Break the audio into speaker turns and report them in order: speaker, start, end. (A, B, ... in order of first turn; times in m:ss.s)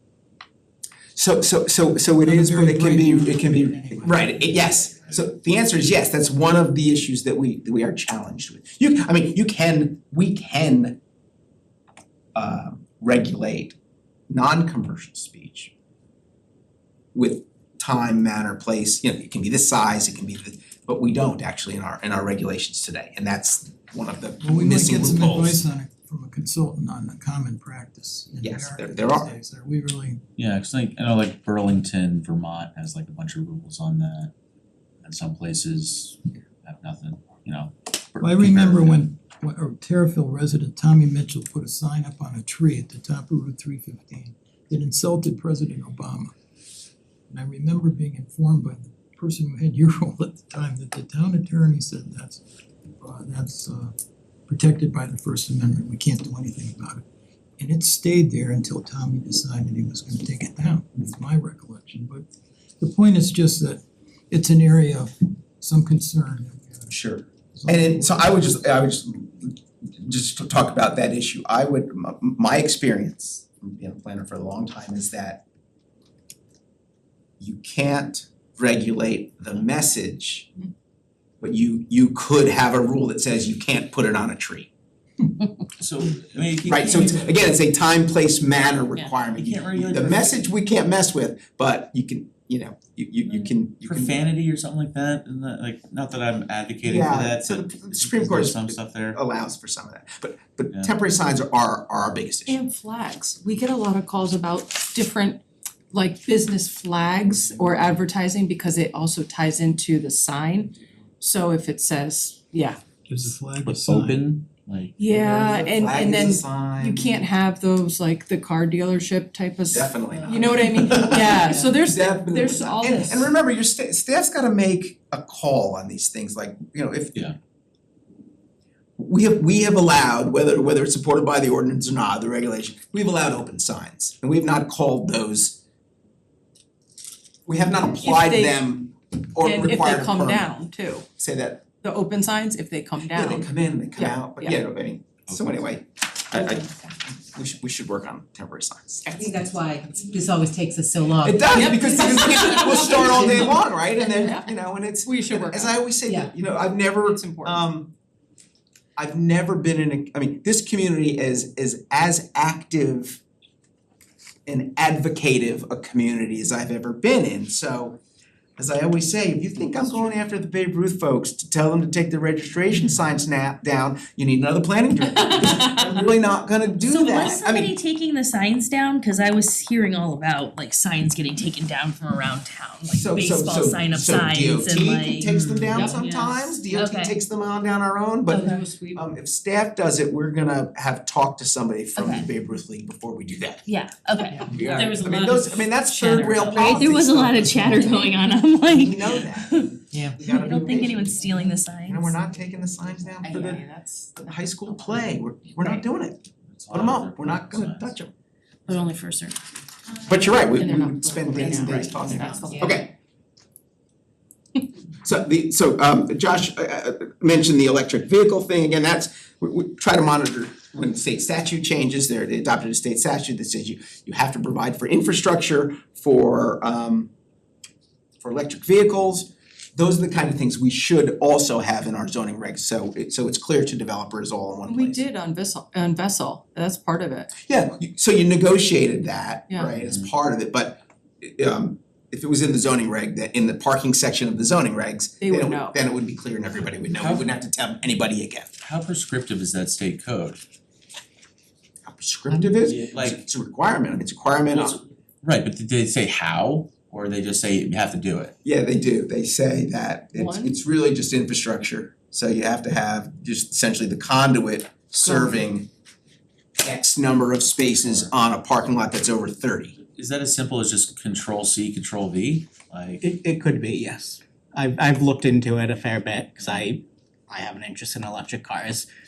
0:01.2-0:11.0 A
0:02.2-0:04.7 B
0:04.4-0:05.2 C
0:12.4-0:13.8 A
0:14.3-0:15.7 A
0:17.1-0:25.6 A
0:24.4-0:30.2 B
0:28.4-0:29.3 A
0:30.4-0:34.3 C
0:35.0-0:39.0 C
0:38.2-0:46.3 B
0:47.3-0:52.4 B
0:53.0-0:54.0 B
0:54.5-0:57.0 B
0:57.6-1:02.3 B
1:02.8-1:06.9 B
1:06.9-1:15.4 A
1:07.5-1:08.6 B
1:17.4-1:20.5 A
1:21.4-1:24.7 A
1:25.8-1:27.3 C
1:26.6-1:34.3 A
1:29.4-1:30.4 C
1:33.8-1:39.2 C
1:36.8-1:42.6 A
1:42.5-1:52.8 D
1:53.1-1:54.2 B
1:53.6-1:55.1 C
1:55.0-2:03.3 D
1:55.1-1:57.2 A
1:59.7-2:07.3 A
2:00.0-2:00.4 E
2:01.1-2:01.8 E
2:09.0-2:15.6 A
2:17.5-2:20.5 A
2:18.0-2:18.7 D
2:19.4-2:21.1 D
2:21.2-2:21.6 A
2:21.8-2:24.6 D
2:23.1-2:26.7 A
2:25.3-2:25.5 C
2:27.3-2:29.3 A
2:29.2-2:32.0 E
2:31.2-2:37.9 A
2:31.5-2:33.5 D
2:34.1-2:34.5 D
2:35.0-2:35.8 D
2:37.0-2:37.6 D
2:39.0-2:43.2 A
2:44.5-2:48.0 A
2:48.6-2:57.7 A
2:56.8-3:07.2 F
3:02.9-3:13.6 A
3:05.7-3:06.0 D
3:08.3-3:09.0 D
3:08.3-3:08.6 F
3:12.0-3:12.3 F
3:13.7-3:19.7 F
3:14.5-3:23.6 A
3:19.9-3:20.4 E
3:20.3-3:22.2 F
3:23.2-3:23.7 E
3:24.2-3:26.2 A
3:26.5-3:28.0 C
3:26.7-3:28.1 A
3:28.7-3:29.4 F
3:30.1-3:32.9 A
3:30.5-3:32.8 D
3:31.6-3:32.4 F
3:35.0-3:47.1 A
3:48.2-3:55.0 A
3:54.7-3:57.3 D
3:57.4-4:08.5 A
3:59.8-4:00.1 C
4:05.2-4:05.8 D
4:07.0-4:07.3 C
4:08.6-4:10.4 C
4:11.9-4:14.8 A
4:12.6-4:13.2 C
4:14.5-4:18.3 C
4:18.4-4:25.7 A
4:20.2-4:20.5 D
4:25.0-4:25.4 D
4:26.6-4:29.8 A
4:29.9-4:33.0 C
4:33.0-4:38.9 G